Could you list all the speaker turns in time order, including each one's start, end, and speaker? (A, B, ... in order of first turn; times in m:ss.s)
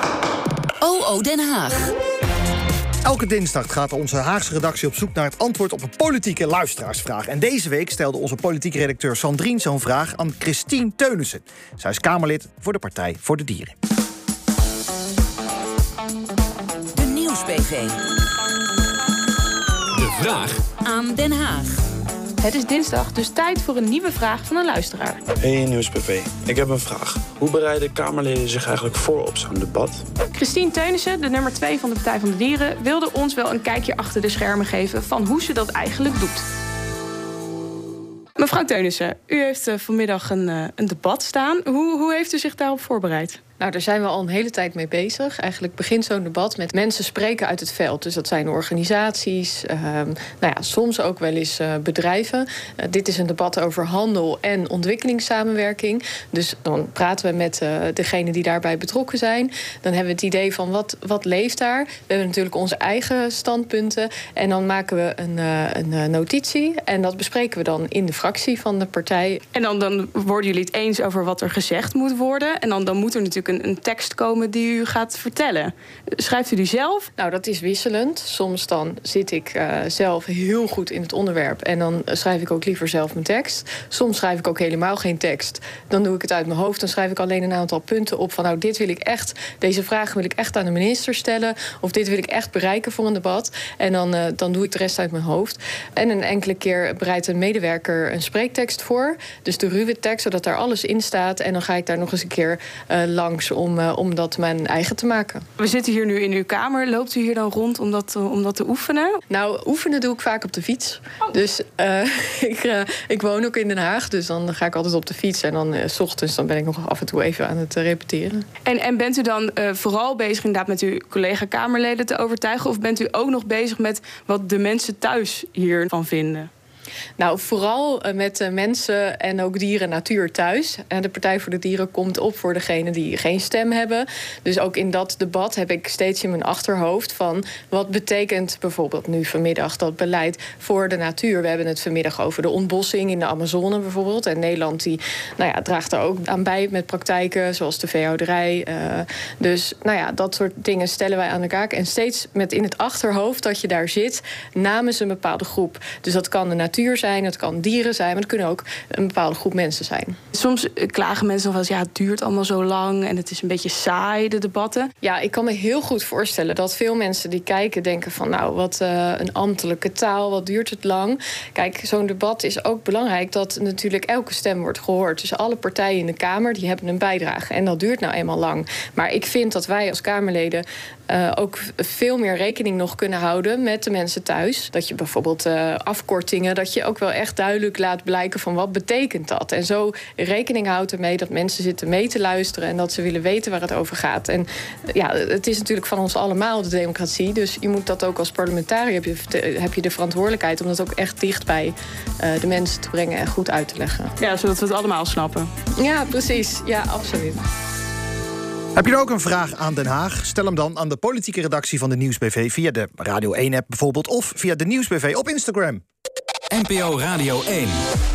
0:00.8-0:01.9 A
0:03.0-0:13.7 B
0:16.9-0:18.0 A
0:20.0-0:20.6 C
0:20.8-0:21.8 A
0:22.4-0:25.2 D
0:25.4-0:30.0 E
0:30.3-0:36.4 D
0:38.4-0:43.4 D
0:43.6-1:09.4 F
1:09.5-1:17.1 D
1:17.2-1:45.4 F
1:45.6-1:49.2 D
1:49.3-1:58.4 F
1:58.6-2:06.5 D
2:07.2-2:40.2 F
2:40.3-2:44.9 D
2:45.0-3:24.1 F
3:24.2-3:25.5 D
3:25.8-3:27.4 F
3:28.8-3:35.8 B
3:36.5-3:37.8 C